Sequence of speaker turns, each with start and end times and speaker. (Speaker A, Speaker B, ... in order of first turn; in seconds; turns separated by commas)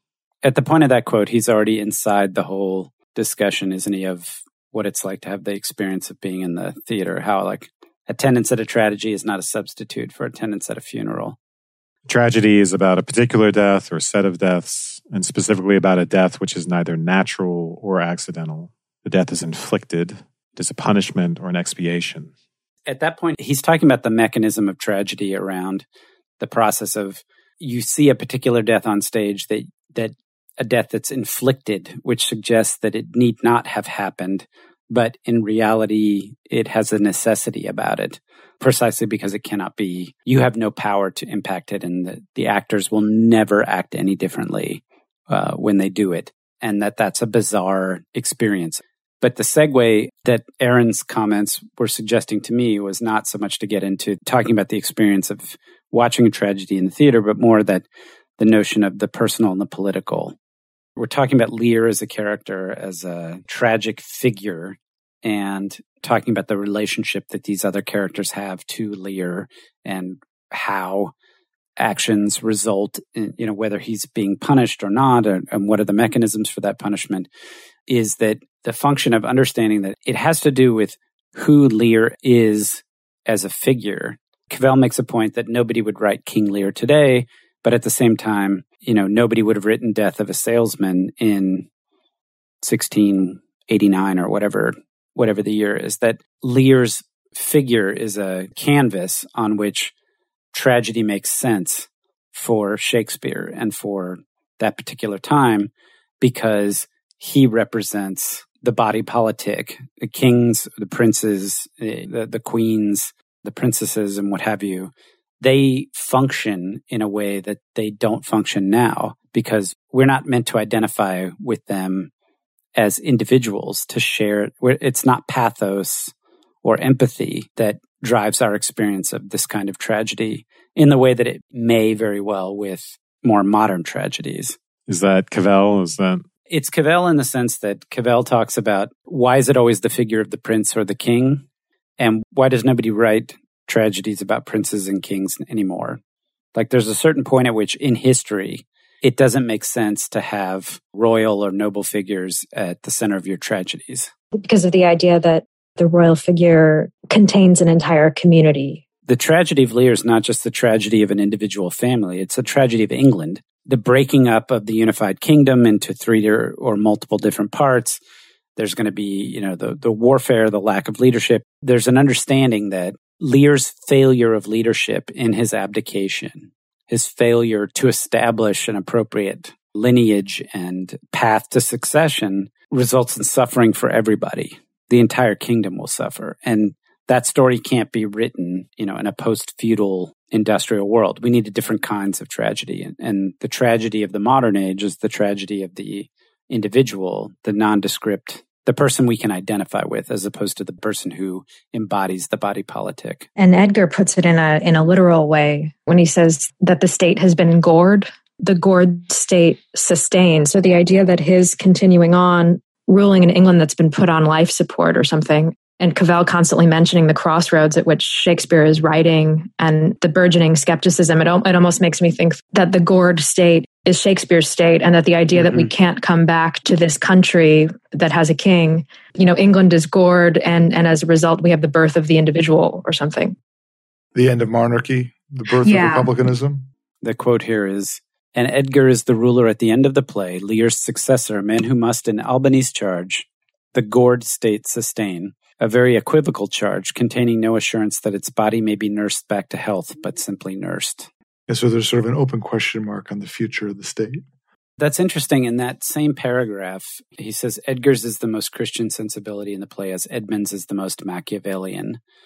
Speaker A: 0.4-11.4, Speaker B: 12.1-22.3, Speaker A: 22.9-25.9, Speaker A: 26.4-57.9, Speaker A: 58.4-60.4, Speaker A: 61.0-71.1, Speaker A: 71.8-77.3, Speaker A: 77.9-91.7, Speaker A: 92.6-99.9, Speaker A: 100.5-122.1, Speaker A: 122.8-126.1, Speaker A: 126.6-134.6, Speaker B: 134.9-136.2, Speaker A: 136.5-141.4, Speaker A: 142.0-146.0, Speaker A: 146.6-154.1, Speaker C: 154.4-158.8, Speaker A: 159.1-168.0, Speaker A: 168.6-203.3, Speaker C: 203.4-233.4, Speaker D: 234.1-236.7, Speaker C: 235.6-236.1, Speaker A: 237.0-251.1, Speaker D: 251.5-254.2, Speaker A: 254.8-262.0